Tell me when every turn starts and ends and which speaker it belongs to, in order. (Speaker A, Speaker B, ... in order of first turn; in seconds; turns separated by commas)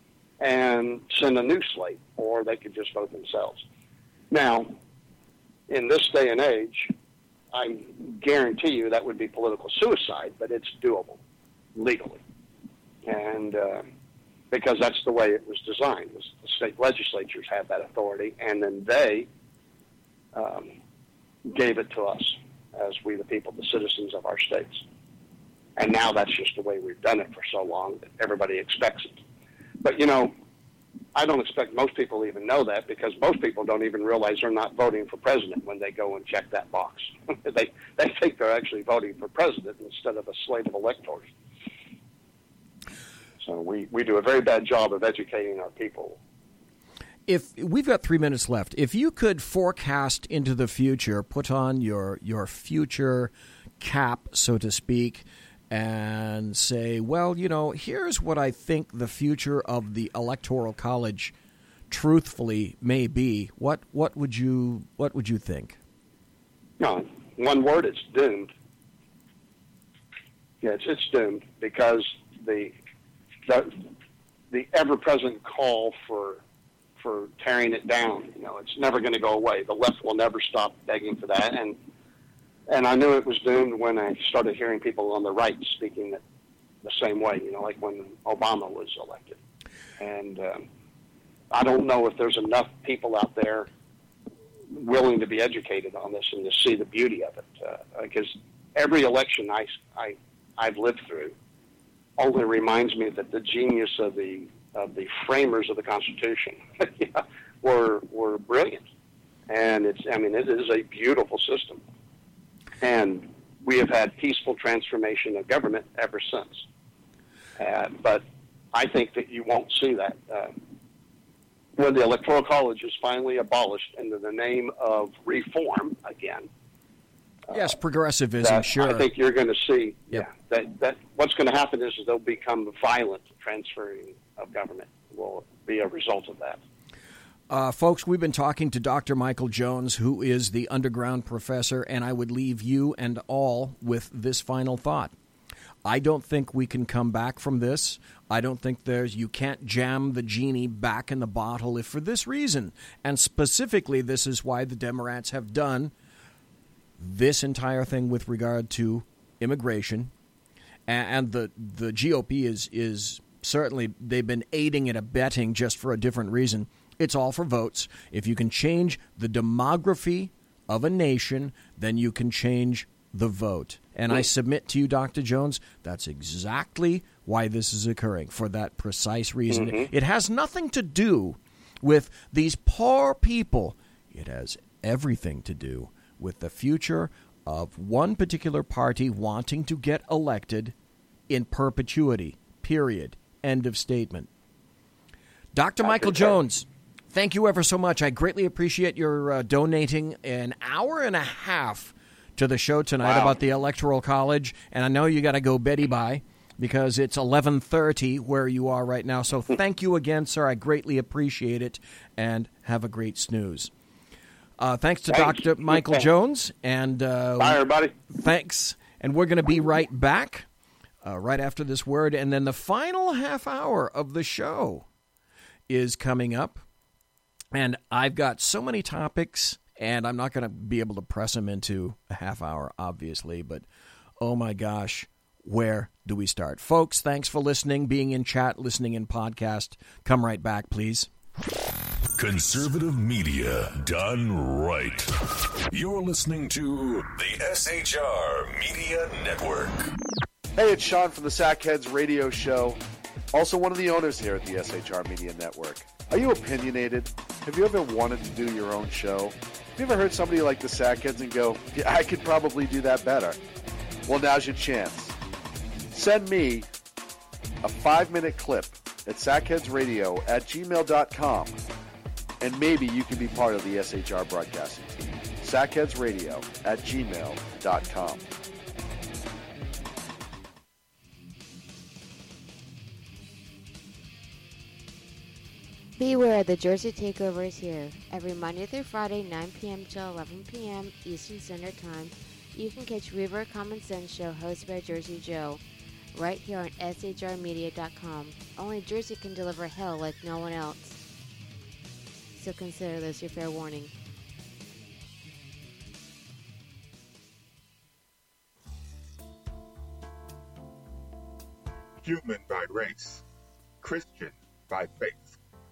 Speaker A: 0.4-3.6, Speaker A: 4.3-4.7, Speaker A: 5.7-6.9, Speaker A: 7.5-11.2, Speaker A: 11.7-12.2, Speaker A: 13.1-13.8, Speaker A: 14.5-19.3, Speaker A: 20.3-20.7, Speaker A: 21.4-24.8, Speaker A: 25.8-29.2, Speaker A: 29.8-30.3, Speaker A: 31.1-41.3, Speaker A: 43.4-46.2, Speaker B: 47.3-61.3, Speaker B: 61.9-65.8, Speaker A: 66.8-68.5, Speaker A: 70.6-72.7, Speaker A: 73.5-73.8, Speaker A: 74.5-76.4, Speaker A: 77.0-81.8, Speaker A: 82.7-86.2, Speaker A: 86.8-89.4, Speaker A: 90.0-90.7, Speaker A: 91.5-93.7, Speaker A: 94.7-101.3, Speaker A: 102.2-108.8, Speaker A: 109.5-111.8, Speaker A: 112.8-116.6, Speaker A: 117.6-118.2, Speaker A: 118.7-120.5, Speaker A: 121.8-126.5, Speaker A: 127.5-127.7, Speaker B: 127.5-129.1, Speaker A: 128.4-136.6, Speaker B: 137.5-145.1, Speaker B: 145.8-155.9, Speaker B: 157.0-160.1, Speaker B: 160.9-190.7, Speaker A: 179.5-179.9, Speaker B: 191.3-194.3, Speaker B: 195.5-213.7, Speaker A: 195.8-196.3, Speaker A: 203.0-203.4, Speaker B: 214.6-220.4, Speaker A: 215.1-216.1, Speaker A: 217.4-217.9, Speaker B: 221.0-224.8, Speaker B: 225.7-226.6, Speaker B: 227.5-233.7, Speaker B: 234.2-241.1, Speaker C: 242.2-249.9, Speaker D: 250.5-252.8, Speaker D: 253.3-263.4, Speaker D: 264.1-265.1, Speaker D: 265.9-266.7, Speaker D: 267.6-271.6, Speaker D: 272.4-278.2, Speaker E: 286.0-295.6, Speaker E: 296.1-301.0, Speaker E: 302.4-303.9, Speaker F: 312.0-313.2, Speaker F: 313.8-315.4